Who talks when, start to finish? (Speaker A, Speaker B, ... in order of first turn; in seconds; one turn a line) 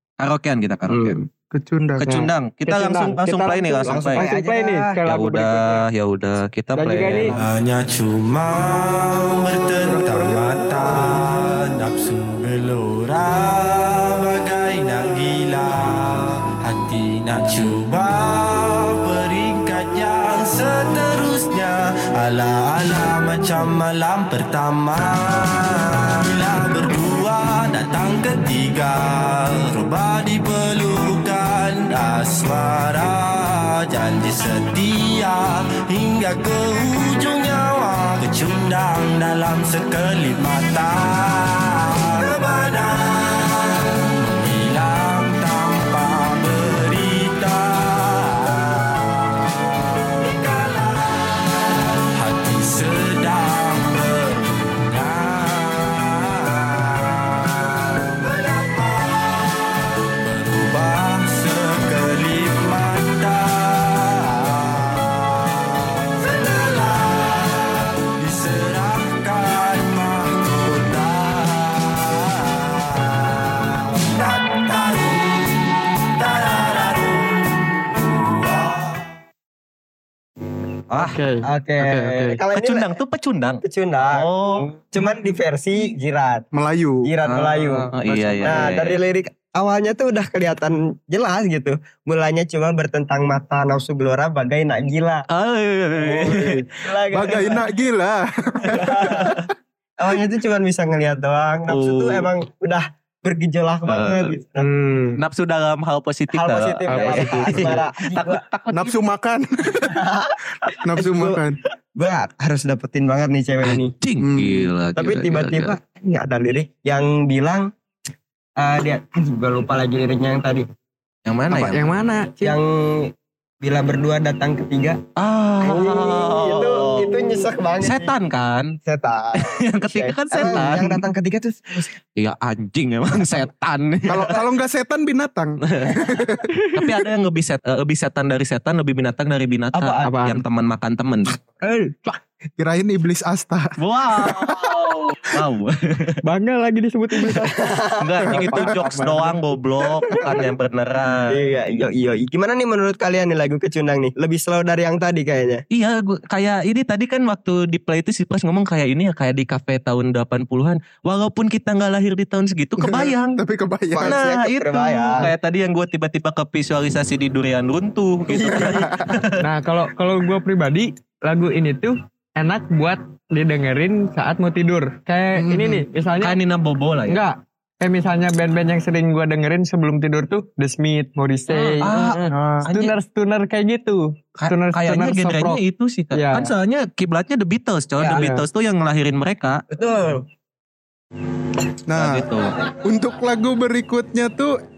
Speaker A: 0.2-1.2
Speaker B: 0.9-1.2
Speaker C: 1.5-2.1
Speaker A: 2.0-4.3
Speaker D: 2.0-5.8
Speaker B: 3.8-5.0
Speaker A: 5.0-7.3
Speaker D: 6.7-7.3
Speaker E: 7.3-49.3
Speaker D: 9.9-10.4
Speaker E: 50.1-79.1
Speaker A: 80.9-81.2
Speaker D: 81.0-82.4
Speaker B: 81.5-83.0
Speaker A: 82.5-84.7
Speaker B: 83.6-86.5
Speaker C: 86.5-87.1
Speaker B: 87.0-87.9
Speaker A: 87.2-89.0
Speaker B: 88.4-95.2
Speaker A: 95.3-96.7
Speaker B: 96.0-97.6
Speaker C: 97.1-99.4
Speaker B: 98.7-99.5
Speaker A: 99.1-99.3
Speaker B: 100.0-104.7
Speaker A: 101.7-102.3
Speaker A: 103.9-104.3
Speaker D: 104.6-105.2
Speaker A: 105.2-108.9
Speaker B: 106.3-108.4
Speaker D: 106.9-107.8
Speaker C: 108.7-110.0
Speaker B: 109.8-111.4
Speaker C: 110.7-111.6
Speaker B: 111.9-113.9
Speaker A: 113.6-115.8
Speaker C: 114.2-114.7
Speaker B: 115.0-117.7
Speaker B: 118.6-120.6
Speaker A: 121.2-121.8
Speaker D: 121.5-122.6
Speaker B: 122.4-125.0
Speaker A: 125.2-128.8
Speaker B: 125.6-128.1
Speaker B: 128.8-131.9
Speaker A: 129.4-131.0
Speaker A: 132.2-134.4
Speaker C: 134.1-136.4
Speaker A: 135.6-136.1
Speaker D: 136.5-136.8
Speaker A: 136.7-141.3
Speaker B: 139.7-140.1
Speaker D: 140.0-140.4
Speaker B: 141.6-142.2
Speaker C: 142.6-145.2
Speaker A: 143.8-146.2
Speaker D: 146.2-147.6
Speaker B: 147.4-148.6
Speaker A: 148.0-151.4
Speaker D: 148.3-149.4
Speaker B: 150.1-150.4
Speaker B: 151.3-155.6
Speaker A: 155.7-163.4
Speaker C: 162.8-164.2
Speaker B: 163.9-165.3
Speaker A: 164.0-169.4
Speaker B: 168.3-168.9
Speaker C: 168.5-169.2
Speaker D: 169.4-176.4
Speaker C: 175.3-175.9
Speaker A: 176.2-177.2
Speaker D: 177.1-185.6
Speaker A: 181.5-182.9
Speaker C: 182.3-182.7
Speaker A: 184.4-189.6
Speaker D: 186.1-186.5
Speaker B: 188.0-188.2
Speaker D: 188.1-188.4
Speaker B: 189.7-190.2
Speaker C: 191.9-192.2
Speaker A: 192.0-192.5
Speaker C: 192.8-194.6